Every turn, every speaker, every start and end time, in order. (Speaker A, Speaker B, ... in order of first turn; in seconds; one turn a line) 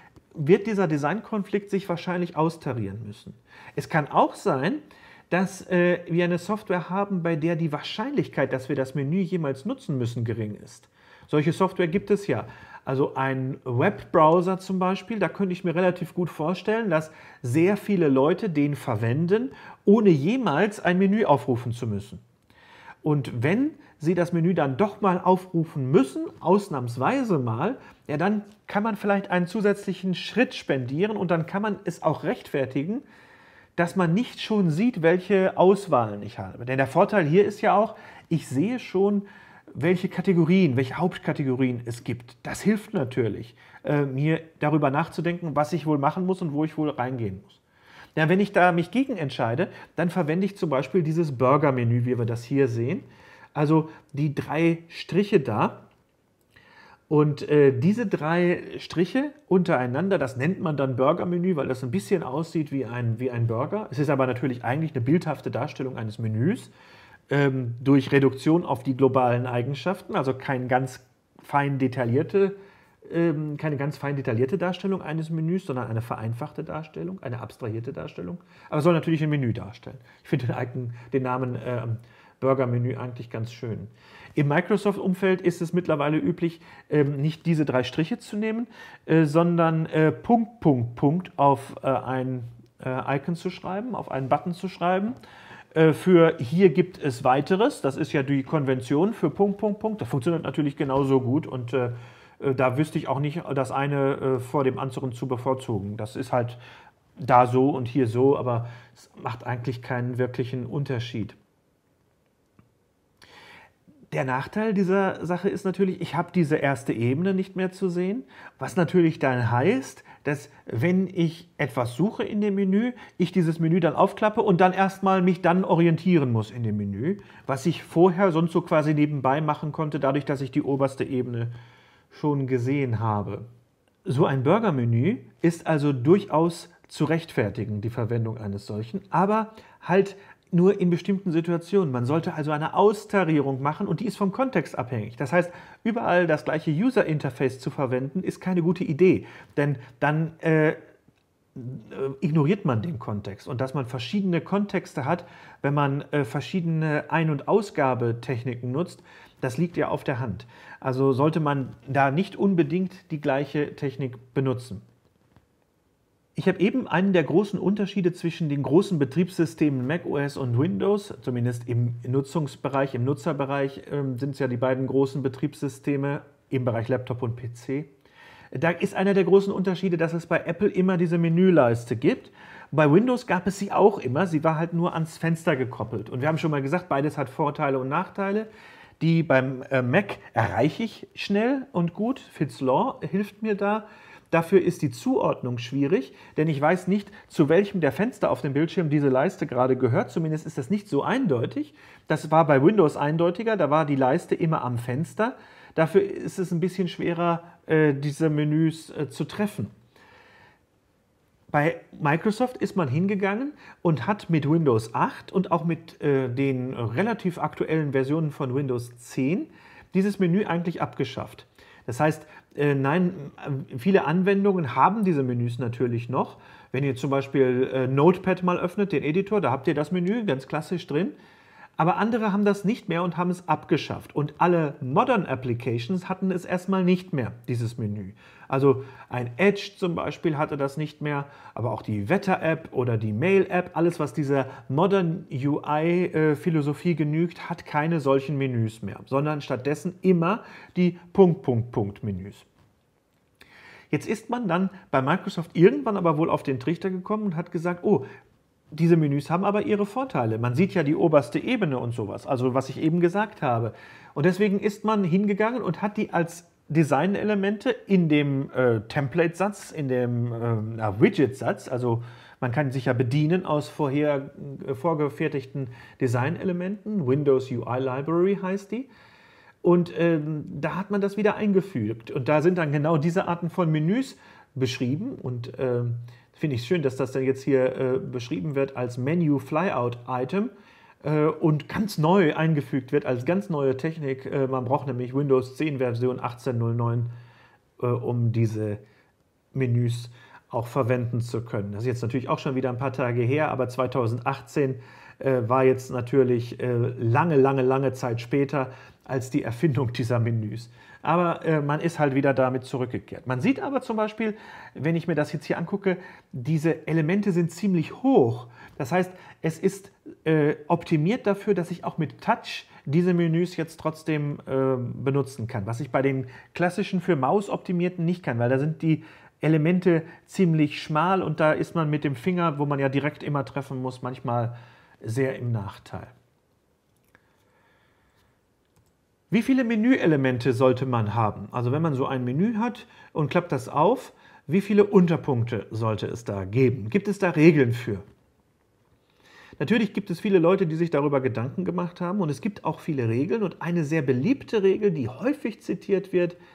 Speaker A: 0.3-22.2
Speaker A: 23.0-33.0
Speaker A: 33.8-47.6
Speaker A: 48.2-55.9
Speaker A: 57.1-66.7
Speaker A: 67.3-95.2
Speaker A: 95.7-106.6
Speaker A: 107.2-111.4
Speaker A: 114.1-131.5
Speaker A: 132.1-133.5
Speaker A: 134.1-150.8
Speaker A: 151.6-164.8
Speaker A: 166.4-177.9
Speaker A: 178.5-188.5
Speaker A: 189.0-209.7
Speaker A: 211.5-231.2
Speaker A: 231.8-252.5
Speaker A: 253.9-258.1
Speaker A: 258.7-278.9
Speaker A: 279.6-290.5
Speaker A: 291.0-297.1
Speaker A: 297.8-298.8
Speaker A: 299.5-336.1
Speaker A: 339.3-348.0
Speaker A: 349.6-356.4